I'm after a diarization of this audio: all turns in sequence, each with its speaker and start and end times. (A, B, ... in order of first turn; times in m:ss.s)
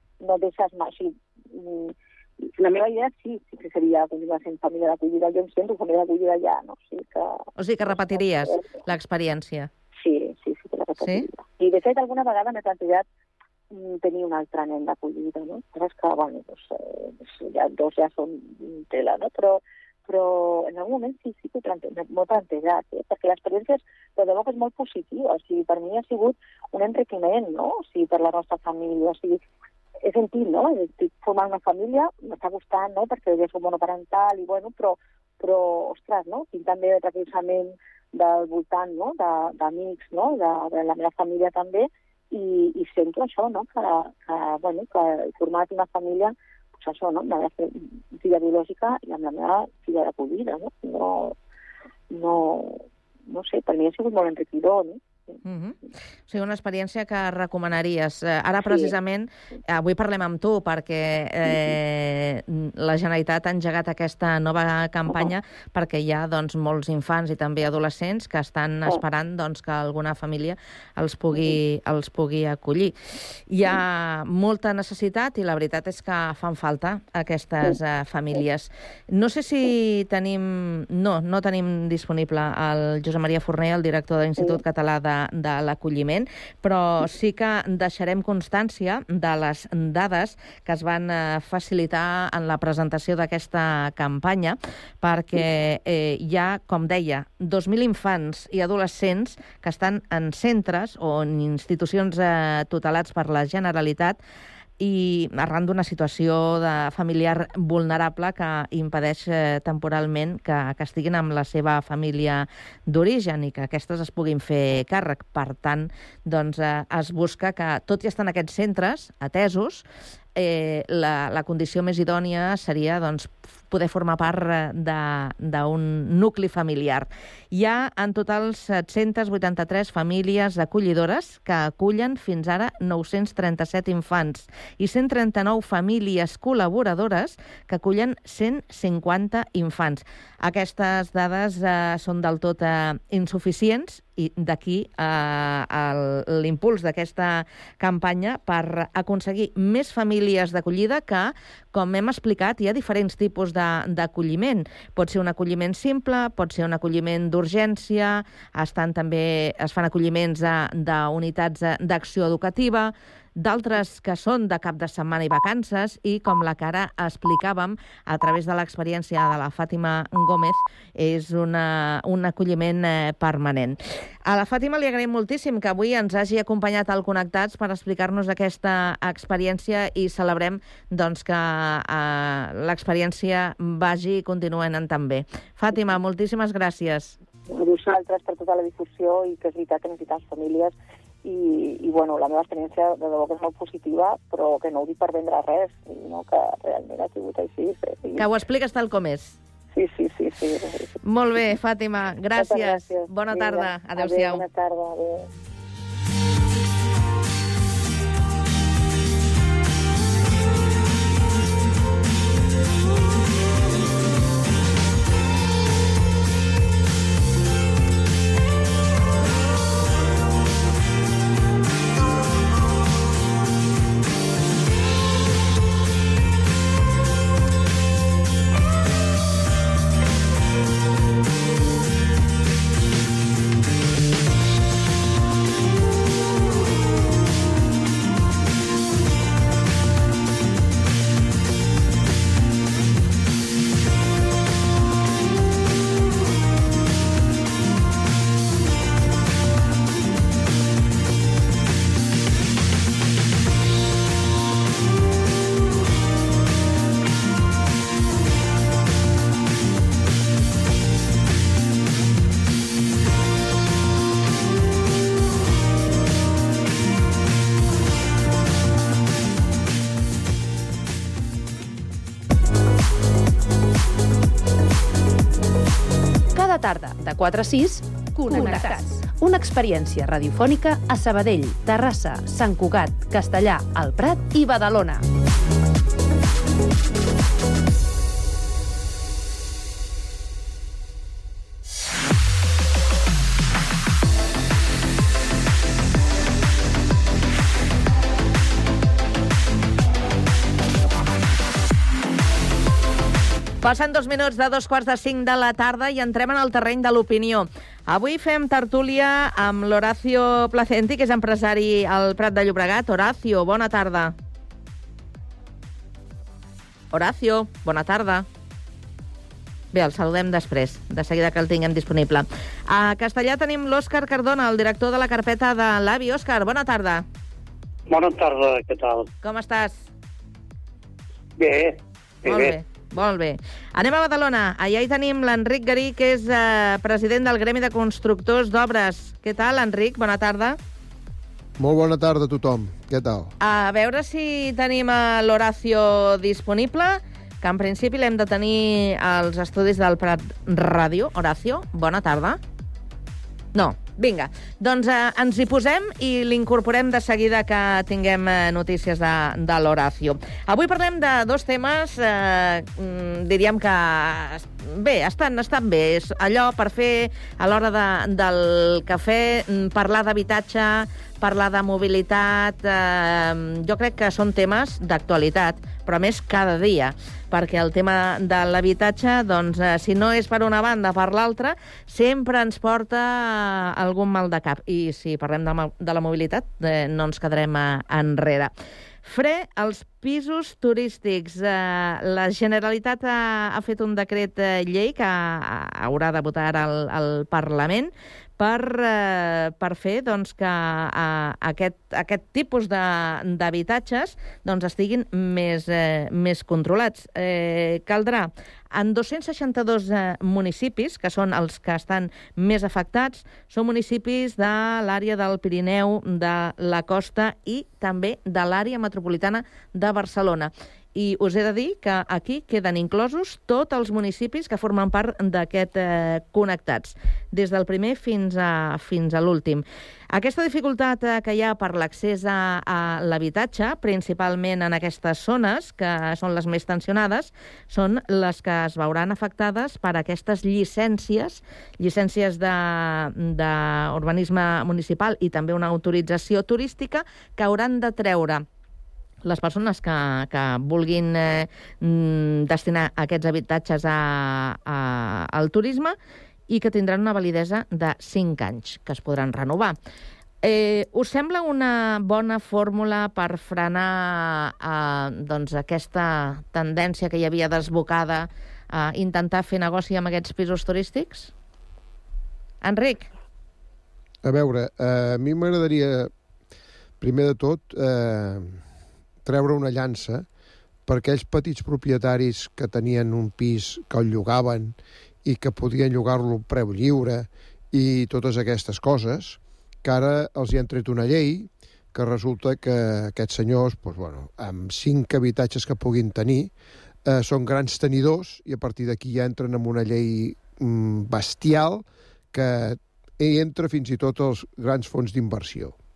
0:00.2-0:07.4 A
0:07.6-0:09.7 B
0:08.0-0:08.7 A
0:10.0-0:13.0 A
0:11.0-0:11.2 B
0:13.7-0:29.4 A
0:30.0-0:51.3 A
0:52.1-0:55.4 A
0:55.4-0:55.8 B
0:56.3-1:12.9 B
1:13.5-1:44.2 B
1:44.8-1:59.8 B
2:00.3-3:07.2 B
3:07.5-3:10.7 A
3:11.2-3:18.2 A
3:18.2-3:19.4 B
3:19.7-3:21.0 A
3:21.0-3:24.4 B
3:22.4-3:25.3 A
4:36.3-4:45.0 C
5:03.6-5:14.1 B
5:16.9-5:18.2 B
5:19.7-5:27.0 B
5:27.9-5:29.1 D
5:29.2-5:29.8 B
5:31.4-5:32.6 D
5:32.2-5:40.6 B
5:41.6-5:43.3 E
5:43.4-5:52.4 B
5:53.5-6:28.5 B
6:29.0-7:28.4 B
7:29.2-7:36.0 B
7:36.5-7:39.8 B
7:40.4-7:51.3 B
7:52.6-7:53.1 B
7:54.2-7:56.1 E
7:57.0-7:58.6 E
7:59.2-8:00.2 E
8:00.8-8:16.5 E
8:17.0-8:25.7 E